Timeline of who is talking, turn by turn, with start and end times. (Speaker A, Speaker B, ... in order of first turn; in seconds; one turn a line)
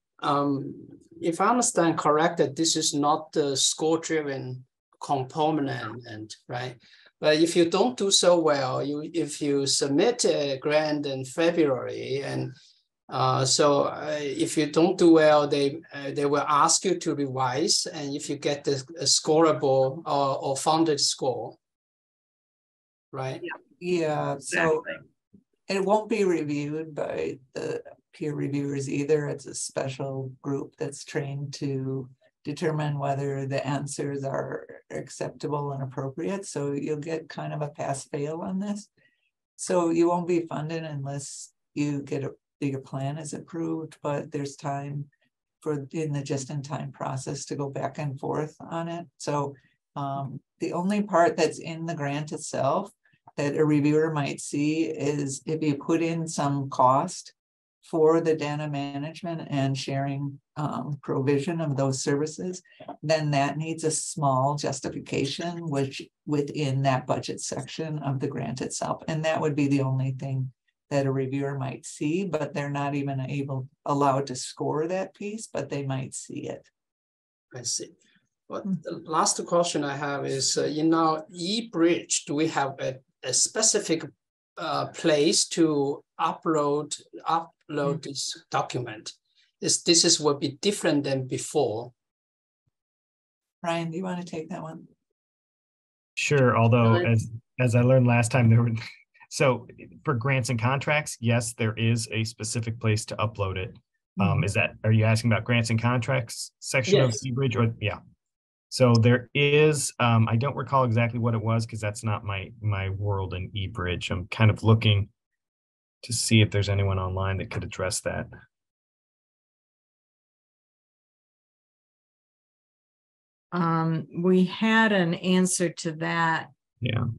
Speaker A: 0.2-12.5
Speaker A: 13.1-21.6
Speaker A: 23.1-23.4
Speaker B: 23.8-24.9
Speaker B: 25.7-38.9
Speaker B: 39.6-45.1
Speaker B: 45.6-76.7
Speaker A: 77.5-77.9
Speaker A: 78.5-91.9
Speaker B: 93.6-94.9
Speaker C: 96.2-108.0
Speaker A: 106.9-107.2
Speaker C: 108.7-115.1
Speaker C: 116.0-118.3
Speaker D: 123.5-126.5